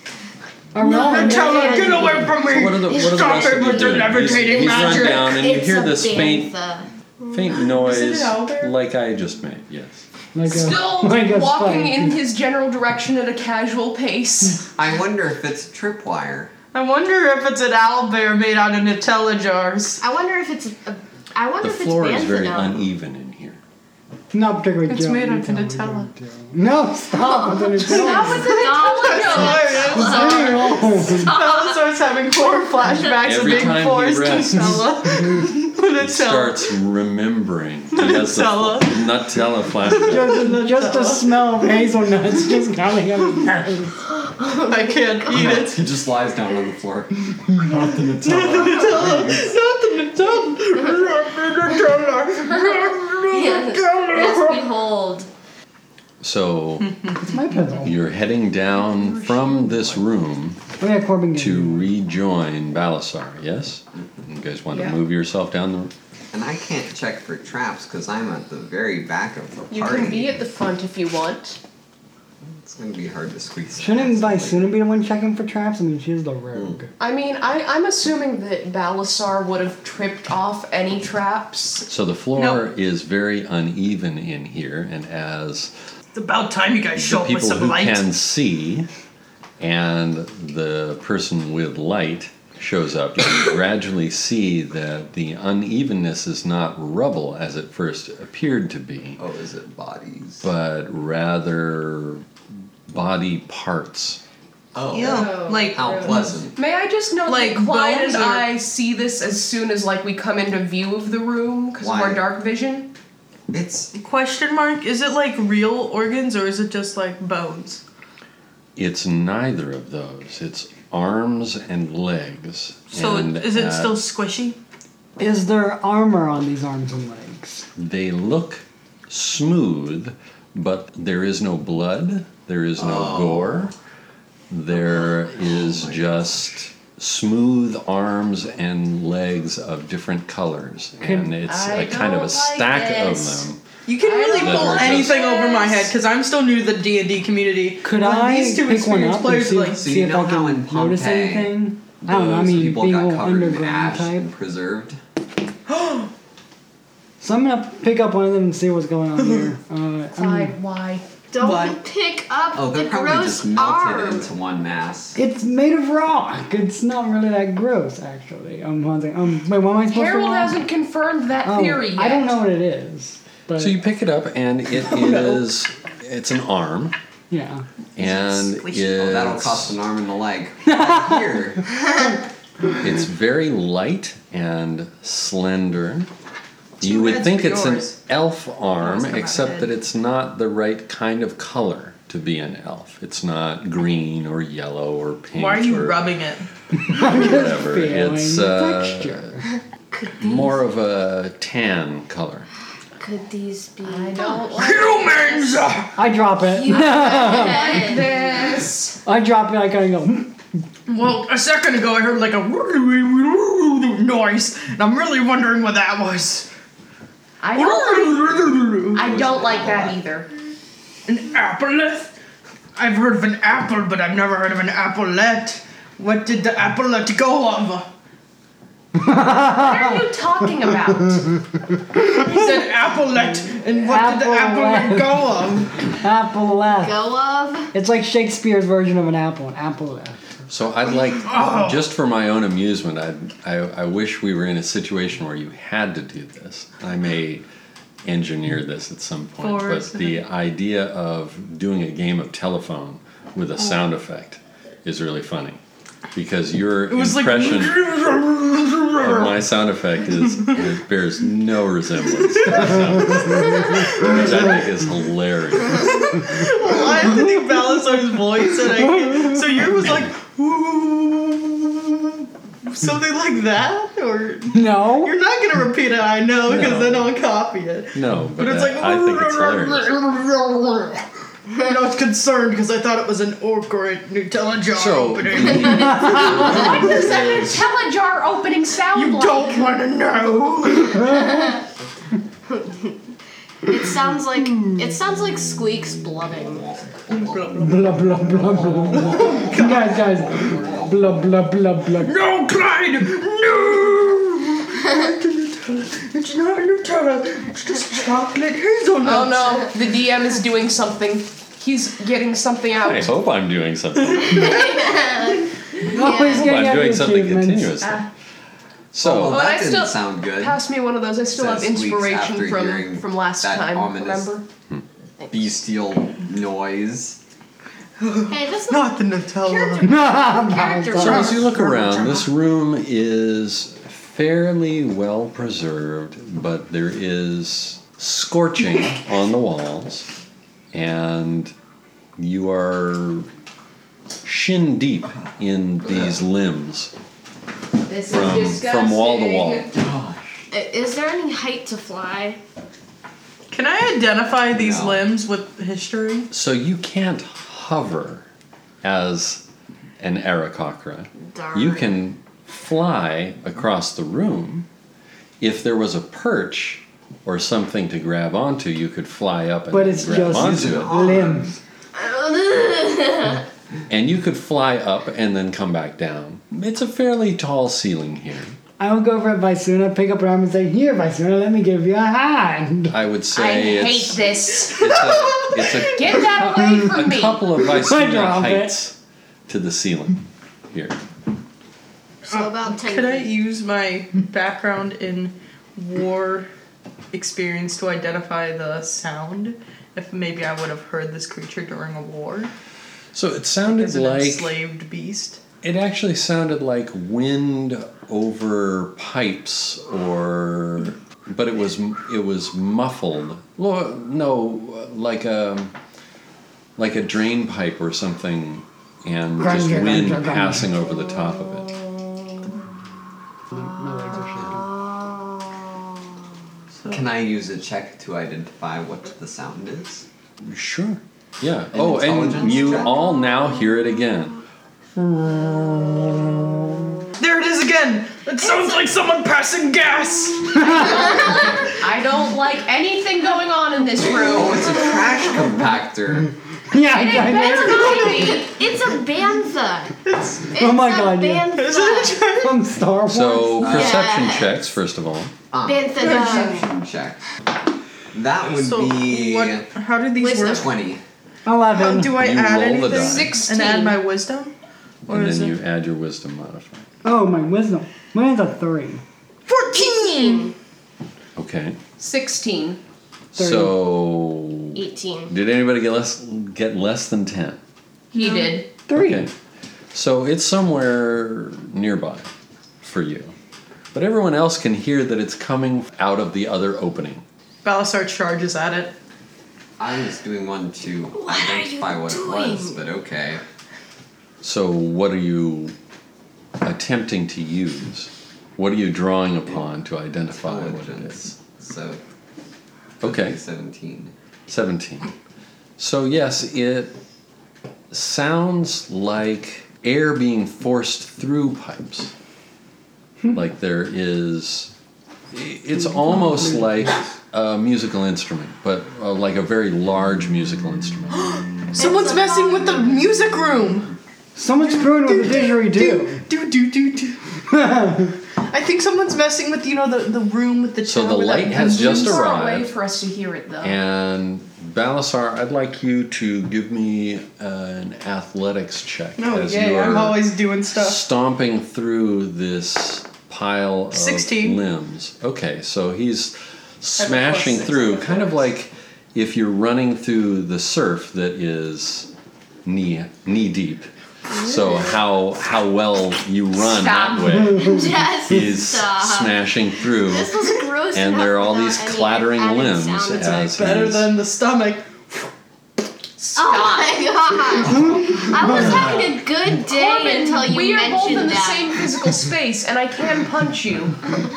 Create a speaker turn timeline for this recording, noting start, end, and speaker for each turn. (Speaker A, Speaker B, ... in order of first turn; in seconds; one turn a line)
Speaker A: 0.7-2.3
Speaker B: 0.8-5.3
Speaker C: 1.1-2.4
Speaker D: 2.5-6.5
Speaker C: 2.9-7.6
Speaker D: 7.3-10.0
Speaker B: 7.7-8.7
Speaker A: 10.3-12.2
Speaker E: 10.5-14.7
Speaker F: 14.8-16.5
Speaker B: 16.7-20.0
Speaker C: 20.0-22.9
Speaker D: 21.6-23.6
Speaker A: 24.3-28.6
Speaker B: 24.8-26.1
Speaker C: 27.2-31.8
Speaker B: 27.8-36.7
Speaker E: 27.9-30.5
Speaker A: 29.8-31.3
Speaker D: 33.2-35.0
Speaker D: 36.0-40.5
Speaker B: 37.9-39.0
Speaker B: 39.9-41.8
Speaker A: 40.1-44.0
Speaker B: 44.5-45.9
Speaker F: 45.3-47.1
Speaker F: 47.8-49.6
Speaker B: 48.2-54.9
Speaker C: 52.5-55.3
Speaker D: 56.2-56.9
Speaker B: 56.8-57.3
Speaker A: 57.2-57.9
Speaker D: 57.8-60.6
Speaker E: 58.9-59.8
Speaker A: 60.8-61.9
Speaker D: 61.4-65.9
Speaker F: 64.0-64.2
Speaker E: 64.7-65.0
Speaker F: 66.3-70.4
Speaker E: 69.7-71.6
Speaker F: 72.4-74.7
Speaker A: 73.8-76.9
Speaker F: 76.5-76.8
Speaker E: 77.0-81.9
Speaker D: 81.9-85.7
Speaker B: 82.3-82.6
Speaker B: 86.1-88.1
Speaker D: 87.0-88.9
Speaker D: 89.6-99.2
Speaker F: 99.2-100.5
Speaker D: 100.4-102.2
Speaker D: 102.9-104.2
Speaker F: 104.7-106.6
Speaker B: 104.9-106.3
Speaker C: 105.0-106.3
Speaker E: 105.2-112.9
Speaker B: 107.2-108.5
Speaker F: 111.8-112.2
Speaker F: 113.5-113.9
Speaker B: 113.9-117.8
Speaker D: 118.8-123.9
Speaker B: 122.9-124.6
Speaker A: 125.2-127.7
Speaker D: 127.8-133.7
Speaker F: 132.8-133.7
Speaker D: 134.5-143.6
Speaker F: 134.7-136.4
Speaker A: 141.0-141.3
Speaker E: 141.4-143.4
Speaker B: 143.8-149.9
Speaker E: 144.0-145.9
Speaker D: 144.4-145.2
Speaker A: 147.8-154.3
Speaker F: 149.7-155.0
Speaker B: 155.7-156.1
Speaker A: 157.2-160.5
Speaker B: 159.2-159.5
Speaker E: 160.1-161.1
Speaker C: 161.3-164.3
Speaker B: 161.4-161.8
Speaker F: 162.5-165.2
Speaker A: 165.2-170.6
Speaker E: 169.9-172.3
Speaker A: 171.4-173.8
Speaker D: 173.6-176.9
Speaker A: 174.9-175.4
Speaker A: 177.3-177.6
Speaker D: 177.9-179.8
Speaker B: 178.0-179.0
Speaker F: 178.9-181.7
Speaker A: 180.7-181.2
Speaker D: 182.8-186.1
Speaker B: 186.8-188.0
Speaker D: 186.8-196.1
Speaker B: 188.8-189.7
Speaker B: 195.3-196.5
Speaker A: 196.8-199.4
Speaker D: 196.9-199.3
Speaker D: 200.2-202.5
Speaker C: 203.0-204.6
Speaker E: 203.8-205.7
Speaker B: 204.5-205.9
Speaker A: 205.9-207.8
Speaker C: 206.5-208.4
Speaker E: 207.3-209.0
Speaker A: 209.0-210.4
Speaker B: 210.9-216.5
Speaker E: 217.4-218.2
Speaker B: 217.5-219.0
Speaker E: 218.9-220.3
Speaker F: 219.0-219.9
Speaker B: 221.1-222.1
Speaker B: 222.8-227.9
Speaker A: 228.9-232.6
Speaker E: 229.6-231.2
Speaker B: 232.1-235.8
Speaker A: 233.8-235.3
Speaker A: 235.8-237.0
Speaker C: 236.8-237.7
Speaker A: 237.7-240.2
Speaker D: 240.5-247.4
Speaker B: 241.2-241.8
Speaker D: 248.0-255.6
Speaker B: 249.4-250.2
Speaker D: 256.1-257.8
Speaker B: 256.9-259.5
Speaker D: 258.9-266.0
Speaker B: 262.4-264.5
Speaker B: 265.7-287.3
Speaker A: 268.6-269.5
Speaker D: 269.8-270.1
Speaker A: 274.5-275.1
Speaker D: 276.5-277.1
Speaker D: 277.9-279.9
Speaker D: 284.7-287.6
Speaker C: 285.4-286.6
Speaker E: 286.1-289.7
Speaker B: 288.9-291.4
Speaker A: 290.9-291.5
Speaker C: 292.5-293.0
Speaker C: 293.6-296.7
Speaker F: 295.0-301.4
Speaker B: 297.1-297.9
Speaker A: 297.6-302.2
Speaker B: 298.9-300.2
Speaker B: 302.0-309.6
Speaker E: 309.0-313.1
Speaker D: 312.8-314.6
Speaker B: 314.1-315.4
Speaker C: 314.3-316.5
Speaker A: 315.9-317.9
Speaker D: 316.3-318.1
Speaker D: 318.9-319.4
Speaker F: 319.0-320.6
Speaker E: 319.2-324.4
Speaker F: 321.3-324.3
Speaker C: 325.2-325.5
Speaker F: 325.3-327.2
Speaker B: 328.0-329.9
Speaker C: 328.3-331.9
Speaker A: 329.8-331.4
Speaker E: 330.9-331.4
Speaker D: 330.9-340.1
Speaker D: 340.7-341.5
Speaker D: 342.2-343.3
Speaker D: 344.2-346.9
Speaker F: 345.8-346.2
Speaker E: 347.9-349.7
Speaker D: 348.1-349.7
Speaker F: 349.7-350.4
Speaker C: 350.5-352.4
Speaker B: 353.5-356.3
Speaker F: 354.5-355.1
Speaker D: 356.3-358.2
Speaker D: 358.8-359.4
Speaker D: 360.0-364.6
Speaker C: 361.2-362.0
Speaker D: 365.4-371.0
Speaker A: 369.7-371.5
Speaker F: 370.1-371.6
Speaker C: 371.9-373.4
Speaker D: 373.9-378.6
Speaker A: 378.8-383.0
Speaker D: 382.9-388.9
Speaker E: 383.3-385.3
Speaker E: 385.8-387.4
Speaker A: 386.5-386.9
Speaker A: 387.6-388.8
Speaker D: 389.5-391.0
Speaker C: 392.2-393.3
Speaker B: 392.3-396.5
Speaker B: 397.1-402.5
Speaker D: 403.1-404.5
Speaker B: 403.8-405.4
Speaker D: 405.6-415.7
Speaker D: 416.8-421.8
Speaker A: 419.4-420.7
Speaker C: 421.2-422.6
Speaker A: 423.5-424.6
Speaker C: 423.6-426.1
Speaker F: 426.8-430.0
Speaker D: 430.4-434.4
Speaker F: 431.7-433.0
Speaker D: 434.9-436.8
Speaker B: 437.2-441.6
Speaker A: 440.5-441.1
Speaker C: 440.6-441.7
Speaker E: 440.8-441.1
Speaker E: 441.8-444.9
Speaker F: 444.0-446.3
Speaker A: 446.7-448.2
Speaker E: 446.9-448.5
Speaker C: 447.1-450.0
Speaker B: 447.6-448.4
Speaker B: 450.0-450.5
Speaker C: 450.5-452.2
Speaker A: 450.6-451.5
Speaker B: 451.5-452.7
Speaker A: 452.4-453.7
Speaker D: 453.1-455.3
Speaker C: 453.6-454.5
Speaker F: 453.6-454.1
Speaker F: 455.5-457.2
Speaker C: 455.6-456.6
Speaker B: 455.9-456.6
Speaker F: 458.1-459.7
Speaker B: 458.5-460.7
Speaker C: 460.1-460.7
Speaker F: 460.4-461.0
Speaker A: 461.4-462.2
Speaker B: 461.7-464.5
Speaker D: 462.1-463.4
Speaker E: 462.9-464.0
Speaker D: 465.1-466.8
Speaker B: 465.1-465.6
Speaker A: 467.0-469.0
Speaker B: 469.5-470.5
Speaker C: 469.7-470.5
Speaker D: 471.4-471.8
Speaker E: 472.0-472.8
Speaker D: 473.3-477.6
Speaker A: 473.4-473.8
Speaker C: 474.7-475.3
Speaker B: 478.1-478.6
Speaker E: 478.1-478.7
Speaker A: 478.9-479.3
Speaker D: 478.9-479.3
Speaker D: 479.9-482.3
Speaker D: 482.8-483.3
Speaker D: 483.9-487.2
Speaker B: 487.6-488.9
Speaker F: 489.8-493.4
Speaker C: 491.1-492.8
Speaker D: 494.4-495.7
Speaker D: 496.6-501.3
Speaker F: 500.3-502.0
Speaker D: 503.0-503.4
Speaker F: 503.0-504.1
Speaker D: 504.5-505.1
Speaker D: 505.8-506.9
Speaker D: 507.9-512.1
Speaker D: 513.3-514.7
Speaker D: 515.3-521.5
Speaker A: 515.8-516.9
Speaker B: 521.1-523.9
Speaker C: 521.7-523.0
Speaker A: 524.3-526.2
Speaker B: 524.6-527.2
Speaker A: 527.5-528.2
Speaker B: 528.5-532.3
Speaker D: 530.8-532.7
Speaker E: 531.5-533.8
Speaker D: 533.6-540.2
Speaker B: 539.2-541.0
Speaker D: 540.7-552.1
Speaker B: 543.9-544.6
Speaker B: 547.0-547.8
Speaker F: 547.3-548.3
Speaker D: 552.6-560.4
Speaker C: 554.3-554.9
Speaker E: 556.6-557.6
Speaker C: 557.5-563.4
Speaker D: 560.9-564.1
Speaker B: 563.2-565.3
Speaker C: 566.3-571.9
Speaker E: 566.4-567.2
Speaker F: 568.8-569.1
Speaker E: 569.6-574.0